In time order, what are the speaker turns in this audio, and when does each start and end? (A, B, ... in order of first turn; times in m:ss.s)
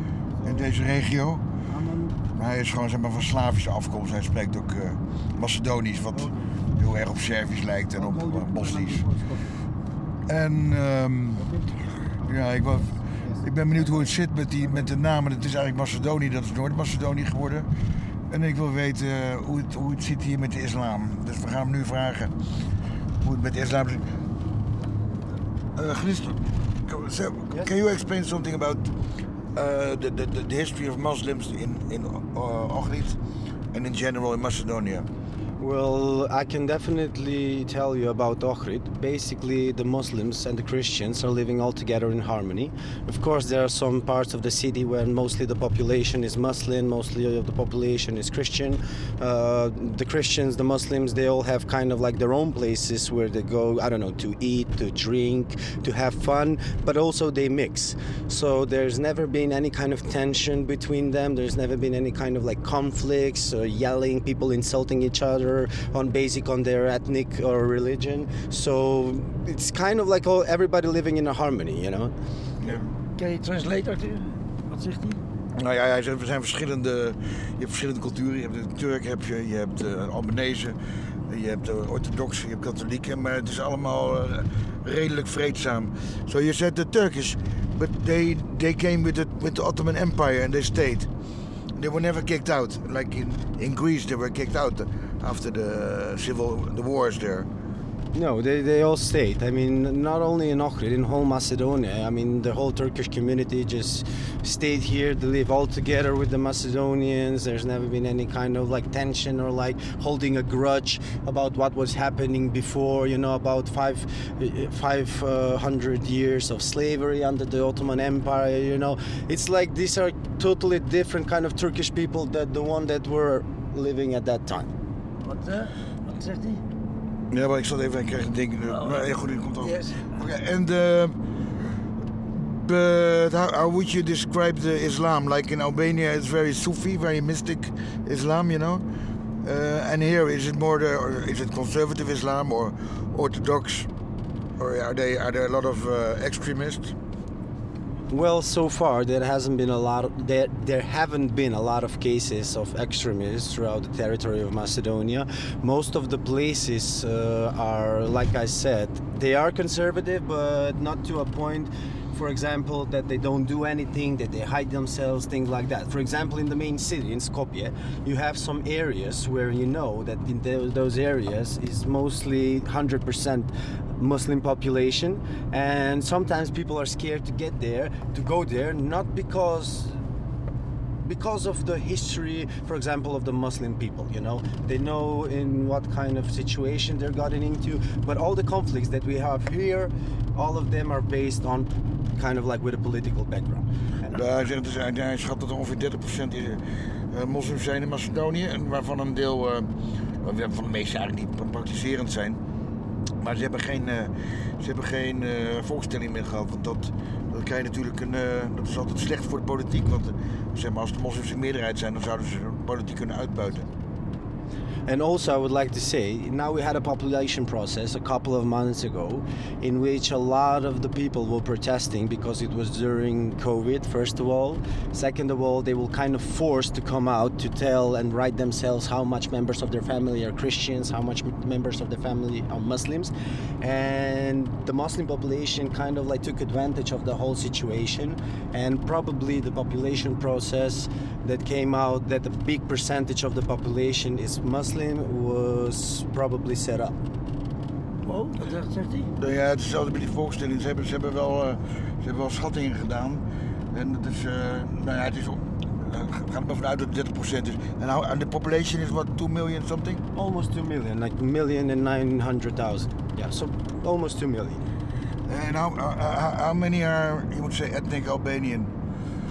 0:00.4-0:00.7 A
0:00.4-0:01.5 B
0:01.7-0:02.2 A
0:02.3-0:09.1 B
0:06.1-0:06.6 A
0:08.0-0:09.4 A
0:10.2-0:11.6 B
0:11.4-0:11.7 A
0:12.2-0:17.7 B
0:13.2-0:14.0 A
0:18.3-0:22.3 B
0:23.2-0:24.1 B
0:25.7-0:29.0 B
0:29.5-0:33.2 B
0:33.7-0:35.1 B
0:35.6-1:12.1 A
1:12.6-1:12.9 B
1:13.2-1:15.2 C
1:15.6-1:31.1 B
1:31.7-1:37.5 B
1:38.1-2:04.7 A
2:05.2-2:06.6 C
2:07.3-2:11.3 B
2:08.7-2:09.0 C
2:09.6-2:10.1 C
2:12.3-2:18.8 B
2:19.4-2:23.9 B
2:24.6-2:27.0 B
2:28.1-3:00.0 A
3:01.0-3:14.2 A
3:14.1-3:22.4 B
3:23.2-3:33.7 B
3:34.8-4:07.0 A
4:08.0-4:09.1 C
4:09.2-4:20.0 B
4:20.1-4:24.6 A
4:25.3-4:28.7 B